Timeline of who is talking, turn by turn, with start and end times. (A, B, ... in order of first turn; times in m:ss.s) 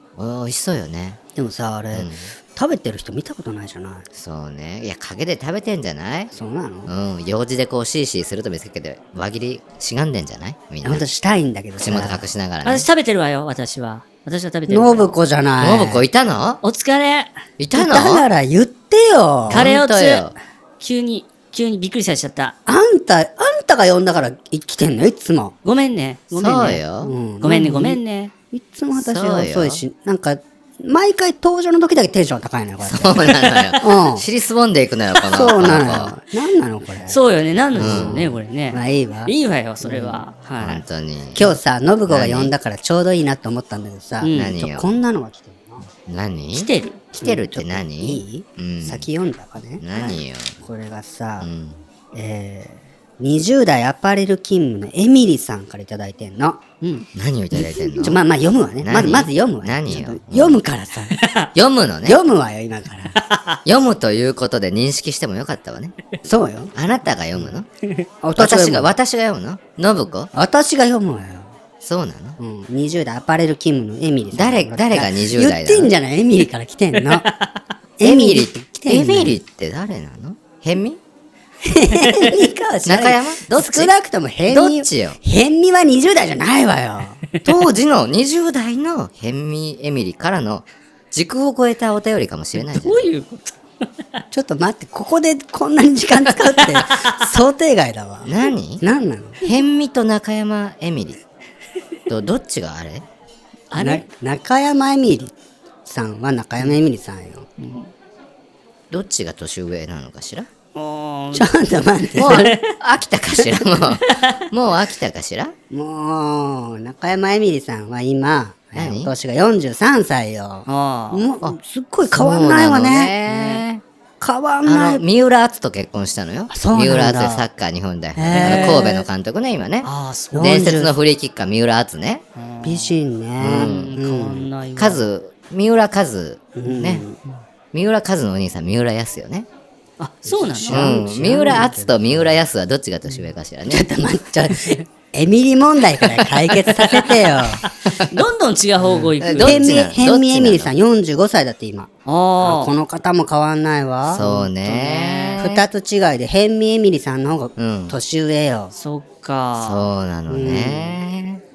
0:00.2-0:01.2 A
0:01.4-0:04.0 B
0:01.9-0:02.3 A
0:04.1-0:06.3 A
0:06.3-0:06.9 B
0:06.9-0:11.0 A
0:10.8-0:12.2 B
0:11.8-0:12.9 A
0:12.6-0:15.1 C
0:14.7-0:16.0 B
0:15.6-0:16.6 A
0:16.6-0:17.4 C
0:17.6-0:18.2 A
0:17.7-0:19.7 B
0:19.5-0:20.3 A
0:19.5-0:22.6 C
0:22.6-0:25.5 B
0:25.6-0:26.8 C
0:26.3-0:27.1 A
0:27.0-0:28.0 B
0:27.4-0:28.3 C
0:28.5-0:34.2 B
0:28.9-0:29.8 A
0:32.8-0:36.1 A
0:35.3-0:37.2 B
0:37.1-0:40.8 C
0:37.7-0:39.3 B
0:37.8-0:38.2 A
0:39.8-0:40.2 B
0:40.6-0:41.5 A
0:41.3-0:45.9 B
0:42.1-0:42.5 A
0:44.2-0:44.5 C
0:44.3-0:44.9 A
0:46.1-0:49.1 A
0:46.5-0:47.0 C
0:47.2-0:51.5 B
0:49.8-0:50.6 A
0:51.4-0:51.8 A
0:52.1-0:56.6 B
0:56.8-0:57.0 C
0:57.1-0:58.2 A
0:57.9-1:01.2 B
0:58.8-1:00.6 A
1:01.1-1:01.5 C
1:01.5-1:02.2 A
1:02.0-1:03.2 B
1:03.2-1:03.6 C
1:03.6-1:05.9 A
1:06.2-1:06.7 B
1:06.7-1:07.7 A
1:08.2-1:08.9 B
1:08.4-1:10.3 A
1:10.3-1:11.5 B
1:11.8-1:12.4 A
1:12.4-1:17.2 B
1:14.3-1:15.9 A
1:17.2-1:17.5 C
1:18.0-1:19.4 B
1:18.0-1:21.0 A
1:21.6-1:27.2 B
1:22.8-1:23.9 A
1:24.4-1:25.2 A
1:27.4-1:33.1 A
1:32.6-1:33.5 C
1:34.3-1:39.4 B
1:38.2-1:38.8 A
1:39.4-1:41.2 A
1:42.1-1:43.0 A
1:43.7-1:44.0 C
1:43.8-1:45.3 B
1:45.8-1:47.5 B
1:47.6-1:47.9 C
1:48.9-1:50.5 A
1:50.7-1:51.5 C
1:51.3-1:52.5 B
1:52.1-1:52.7 C
1:52.2-1:55.5 A
1:54.0-1:54.4 C
1:55.7-2:03.1 B
1:58.7-1:59.1 A
2:00.7-2:01.3 C
2:01.4-2:03.8 A
2:03.3-2:03.6 C
2:04.2-2:05.0 B
2:04.6-2:12.2 A
2:06.5-2:07.4 B
2:08.2-2:09.0 B
2:08.3-2:08.8 C
2:09.8-2:10.6 C
2:10.3-2:10.9 B
2:12.4-2:13.0 C
2:12.6-2:14.5 B
2:13.4-2:13.9 A
2:13.5-2:15.0 C
2:14.8-2:17.0 A
2:16.6-2:17.2 B
2:17.7-2:19.5 A
2:20.0-2:21.0 C
2:20.2-2:22.4 B
2:20.7-2:23.9 A
2:23.7-2:27.6 B
2:26.7-2:29.7 C
2:28.8-2:34.4 B
2:29.2-2:30.7 A
2:32.0-2:32.7 C
2:34.0-2:35.6 A
2:34.2-2:35.4 C
2:35.4-2:38.7 B
2:37.6-2:38.0 A
2:38.7-2:39.8 C
2:39.6-2:41.4 A
2:40.3-2:41.0 B